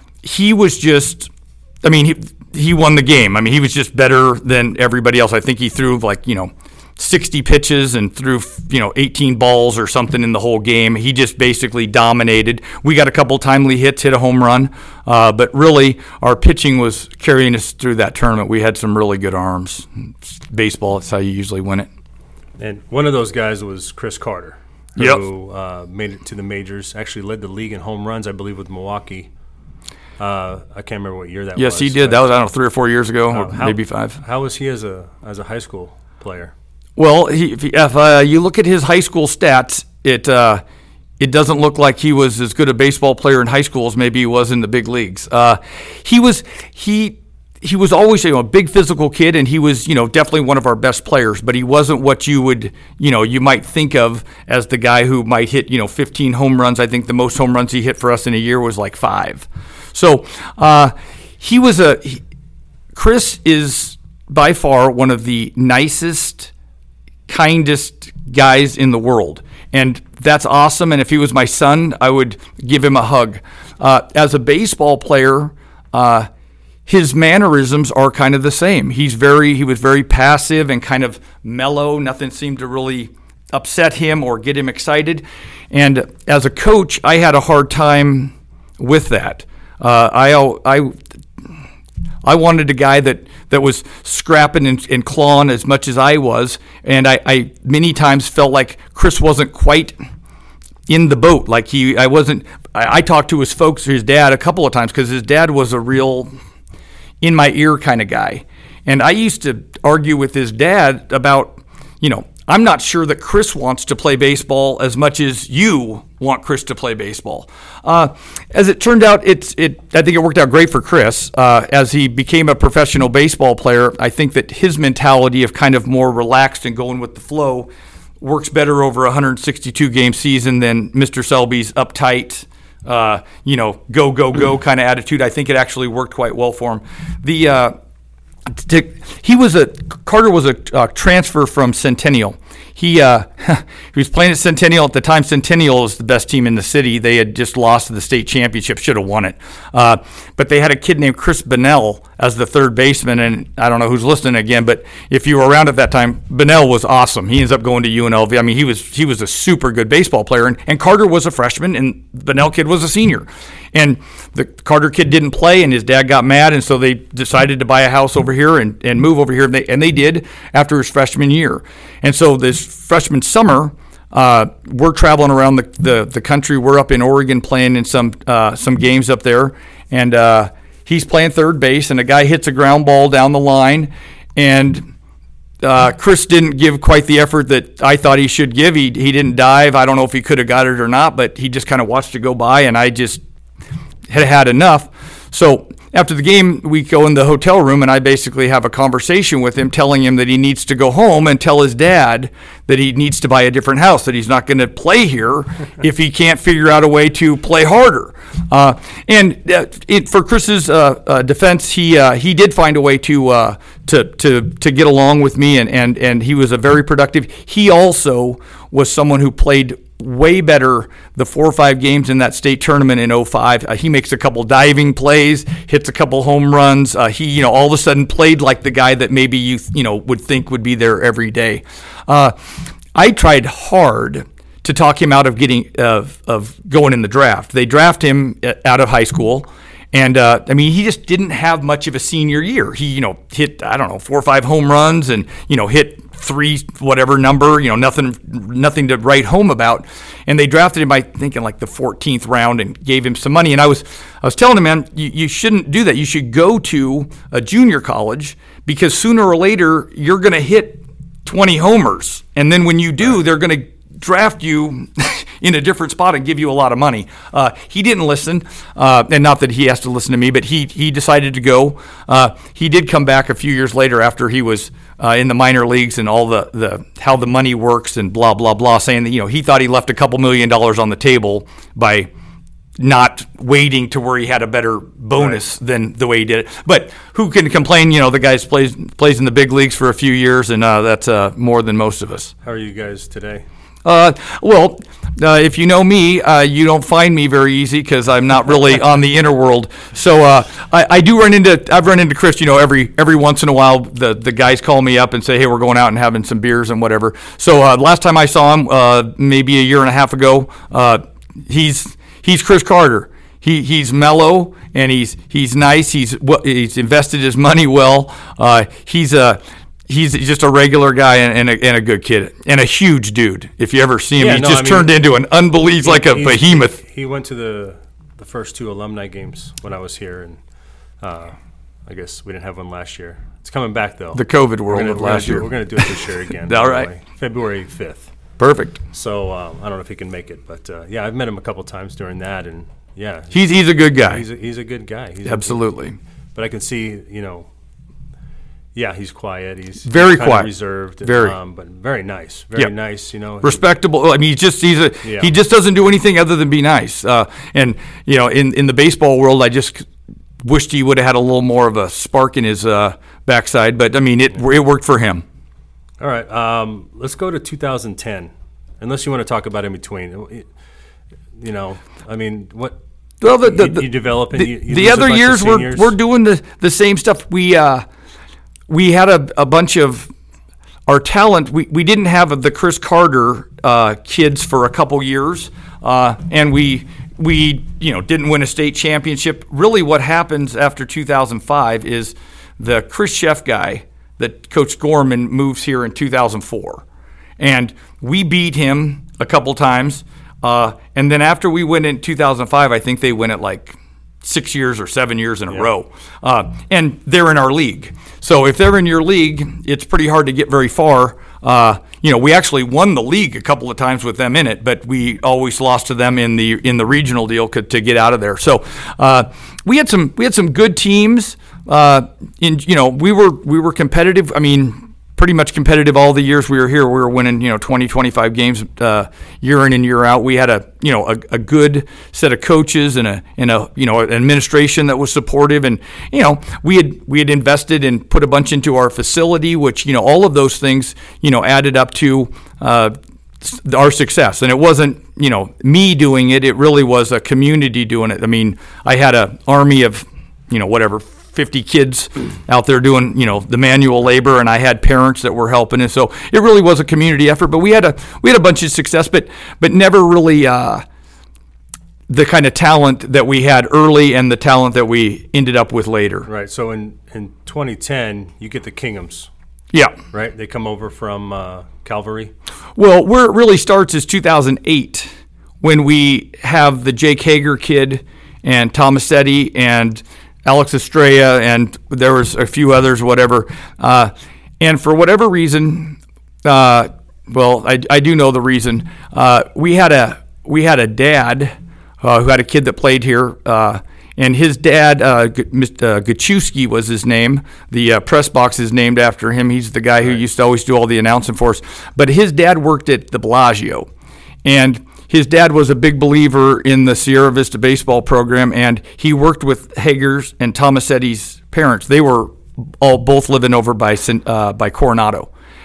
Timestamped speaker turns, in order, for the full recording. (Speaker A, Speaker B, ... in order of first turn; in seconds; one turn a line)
Speaker A: 0.2-1.3
Speaker A: 1.8-21.9
Speaker B: 22.6-29.3
Speaker A: 25.0-25.2
Speaker B: 30.2-32.3
Speaker A: 31.6-34.2
Speaker B: 33.3-36.5
Speaker A: 37.0-40.6
Speaker A: 41.2-62.2
Speaker A: 62.9-66.5
Speaker A: 67.3-76.3
Speaker A: 76.8-91.0
Speaker A: 92.2-100.0
Speaker A: 100.9-106.3
Speaker A: 107.2-137.8
Speaker A: 138.5-184.9
Speaker A: 185.6-193.2
Speaker A: 194.1-232.3
Speaker A: 232.9-282.1
Speaker A: 282.8-292.3
Speaker B: 292.4-293.4
Speaker A: 293.8-326.8
Speaker B: 324.2-324.9
Speaker B: 325.8-330.4
Speaker B: 331.0-338.1
Speaker A: 334.1-335.9
Speaker A: 336.4-336.9
Speaker A: 338.4-338.8
Speaker B: 338.9-343.4
Speaker A: 343.3-344.2
Speaker B: 344.0-345.6
Speaker A: 345.2-346.0
Speaker B: 346.3-347.5
Speaker B: 348.7-353.6
Speaker A: 349.8-350.5
Speaker A: 351.0-351.4
Speaker A: 353.4-359.9
Speaker B: 355.0-355.3
Speaker A: 360.4-365.2
Speaker B: 366.0-370.5
Speaker B: 371.4-372.8
Speaker A: 373.2-377.9
Speaker B: 373.4-375.9
Speaker A: 378.7-380.1
Speaker A: 380.9-396.8
Speaker A: 397.4-460.8
Speaker A: 462.1-466.3
Speaker B: 466.3-469.3
Speaker A: 469.7-470.0
Speaker B: 470.1-472.3
Speaker A: 472.8-503.9
Speaker A: 504.4-515.3